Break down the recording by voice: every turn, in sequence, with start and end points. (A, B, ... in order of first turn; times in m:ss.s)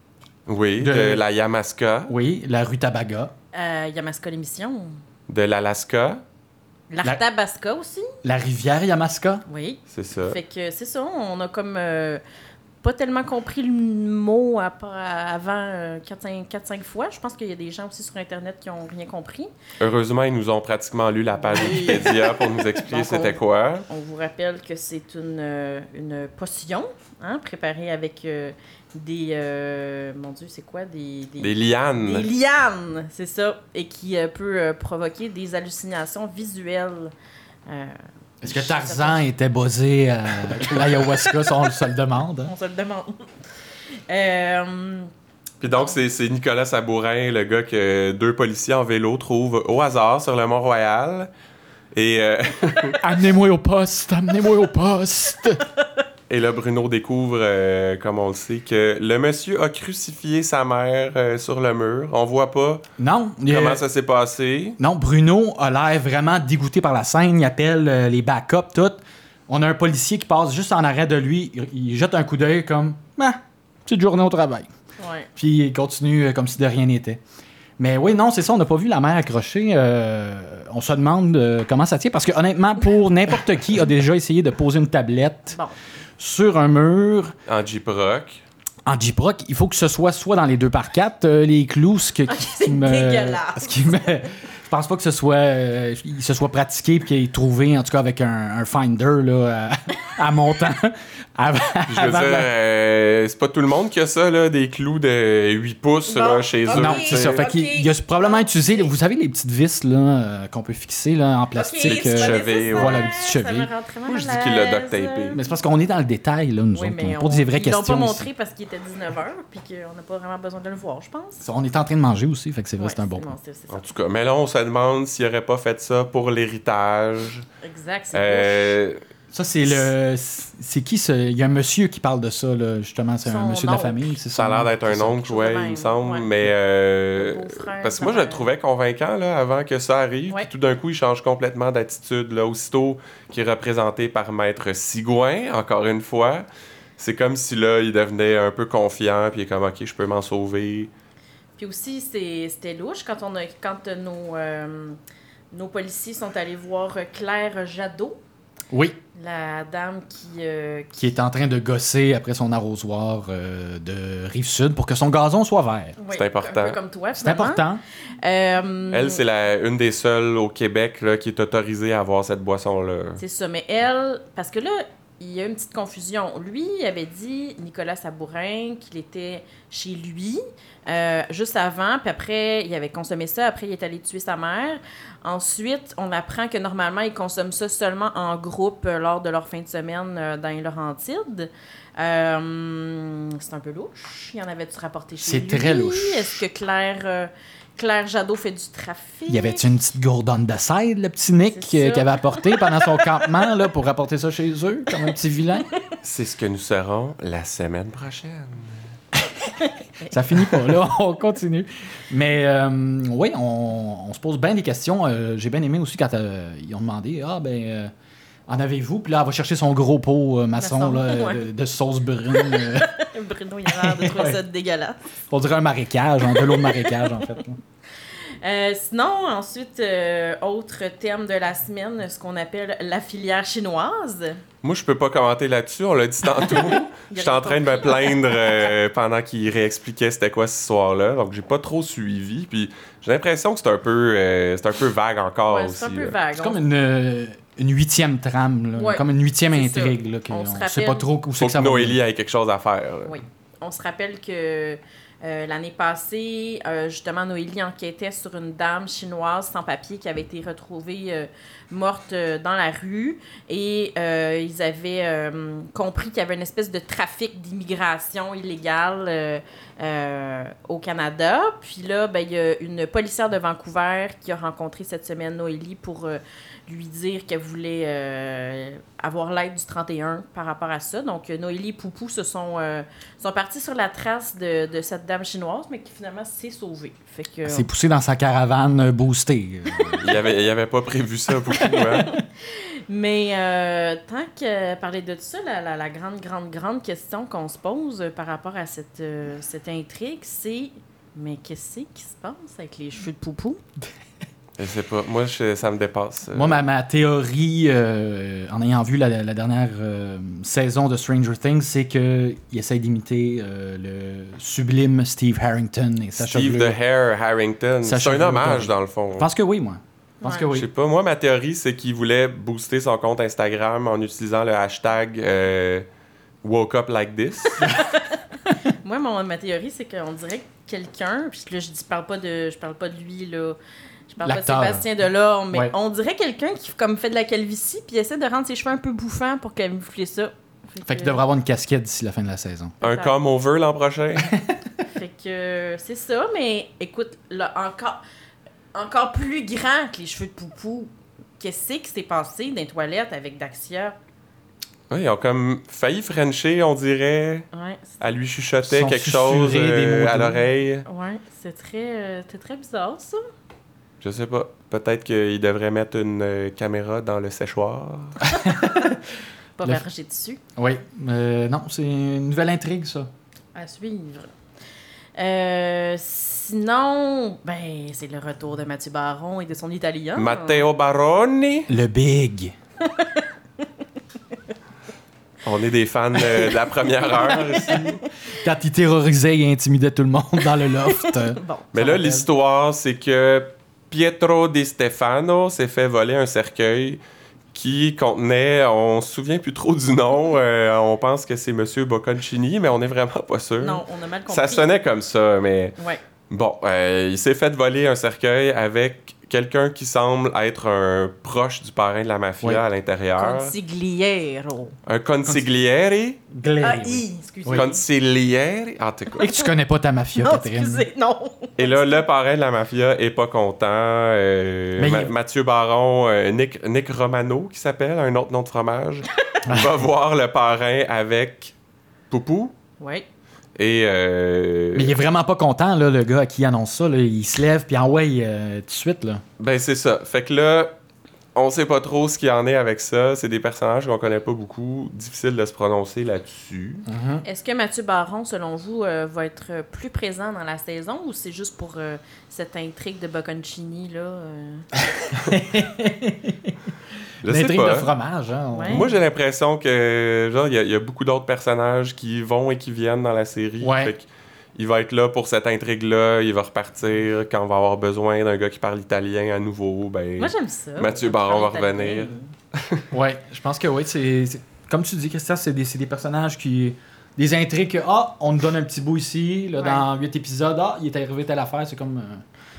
0:00.5-0:02.1 A
0:00.8-0:01.2 B
0:02.1-0:03.3 B
0:03.5-0:05.0 C
0:05.3-0:06.2 A
0:06.9-0:08.1 C
0:08.2-0:09.4 B
0:09.5-0:12.2 C
0:09.9-0:10.4 A
0:12.8-0:19.5 C
0:19.8-0:23.8 A
0:21.4-0:37.1 C
0:31.4-0:32.3 A
0:37.7-0:39.2 C
0:38.4-0:42.5 B
0:40.6-0:41.7 C
0:42.4-0:43.4 C
0:44.1-0:45.1 C
0:45.6-0:51.3 A
0:45.6-0:46.0 C
0:51.9-0:53.0 A
0:53.0-0:55.6 B
0:56.3-1:02.8 A
1:03.0-1:03.8 B
1:03.5-1:04.8 A
1:04.8-1:14.7 B
1:15.0-1:15.3 C
1:15.4-1:17.2 B
1:17.8-1:25.6 B
1:26.2-1:27.3 B
1:27.5-1:28.4 A
1:28.8-1:42.5 B
1:32.2-1:34.1 C
1:41.9-1:47.4 A
1:46.1-1:48.9 C
1:46.7-1:53.7 B
1:51.5-1:55.4 C
1:51.8-1:53.1 A
1:54.1-1:55.4 A
1:55.3-1:58.3 B
1:56.7-2:01.4 C
2:01.4-2:03.3 B
2:02.8-2:03.8 C
2:03.7-2:07.4 A
2:07.6-2:08.8 C
2:08.1-2:09.0 A
2:09.3-2:15.0 B
2:13.2-2:14.2 C
2:14.3-2:26.4 A
2:14.9-2:16.5 C
2:17.2-2:18.5 C
2:27.0-2:30.9 A
2:31.6-2:35.0 C
2:35.5-2:38.2 C
2:38.7-2:39.0 B
2:39.1-2:41.1 C
2:41.0-2:46.0 B
2:46.0-2:47.6 C
2:46.1-2:46.8 A
2:47.2-2:47.8 B
2:48.2-2:49.2 C
2:48.9-2:53.2 A
2:53.2-3:19.7 C
3:15.2-3:16.4 B
3:19.3-3:25.7 B
3:21.5-3:23.5 C
3:26.0-3:28.8 A
3:29.6-3:30.1 C
3:30.1-3:37.9 B
3:38.5-3:42.9 B
3:40.6-3:41.5 C
3:42.3-3:45.0 C
3:43.7-3:44.4 B
3:45.3-3:47.6 B
3:46.2-3:47.4 C
3:48.4-3:54.4 C
3:54.6-4:06.2 A
3:56.4-3:58.5 C
4:05.5-4:06.6 C
4:06.3-4:12.0 B
4:08.8-4:11.1 C
4:11.4-4:13.2 A
4:13.0-4:47.7 C
4:47.4-4:50.2 B
4:50.0-4:52.1 A
4:51.7-5:03.6 C
5:04.6-5:06.6 A
5:06.3-5:16.8 B
5:16.2-5:19.3 A
5:17.8-5:20.7 B
5:20.2-5:20.5 C
5:20.5-5:25.8 A
5:26.4-5:27.7 A
5:27.6-5:33.6 C
5:34.1-5:41.2 C
5:34.2-5:34.9 B
5:40.8-5:42.8 B
5:42.8-5:43.1 C
5:42.8-5:44.3 A
5:44.2-5:44.6 B
5:44.8-5:48.0 C
5:48.7-5:54.0 C
5:54.9-5:57.5 A
5:57.5-5:58.1 C
5:58.0-6:00.8 A
5:58.6-6:00.4 B
6:00.8-6:03.2 C
6:04.0-6:08.2 A
6:08.2-6:09.0 B
6:08.5-6:08.9 C
6:09.6-6:10.4 C
6:10.6-6:13.1 B
6:13.5-6:14.3 C
6:15.2-6:20.6 C
6:20.2-6:21.7 A
6:21.7-6:22.5 B
6:22.8-6:23.6 C
6:25.4-6:28.0 A
6:26.2-6:28.0 C
6:28.4-6:32.3 B
6:30.6-6:31.7 C
6:31.7-6:37.0 A
6:37.5-6:45.8 A
6:43.6-6:44.7 C
6:46.3-6:53.5 A
6:53.2-6:54.7 C
6:54.8-6:56.2 A
6:56.3-6:57.7 B
6:56.6-6:57.8 C
6:57.5-6:59.3 A
6:59.2-7:00.8 B
6:59.2-6:59.5 C
7:00.2-7:02.0 C
7:01.6-7:11.5 A
7:04.8-7:05.1 B
7:09.4-7:09.8 B
7:12.1-7:12.5 A
7:12.8-7:13.1 C
7:13.6-7:14.9 A
7:14.7-7:19.2 B
7:19.4-7:20.7 A
7:21.3-7:26.8 A
7:26.9-7:27.2 B
7:27.2-7:34.6 C
7:35.0-7:36.6 B
7:37.2-7:37.9 A
7:37.2-7:38.9 B
7:38.5-7:38.9 C
7:38.7-7:52.9 A
7:43.6-7:43.9 B
7:50.2-7:52.3 C
7:52.9-8:02.2 B
7:59.6-7:59.8 C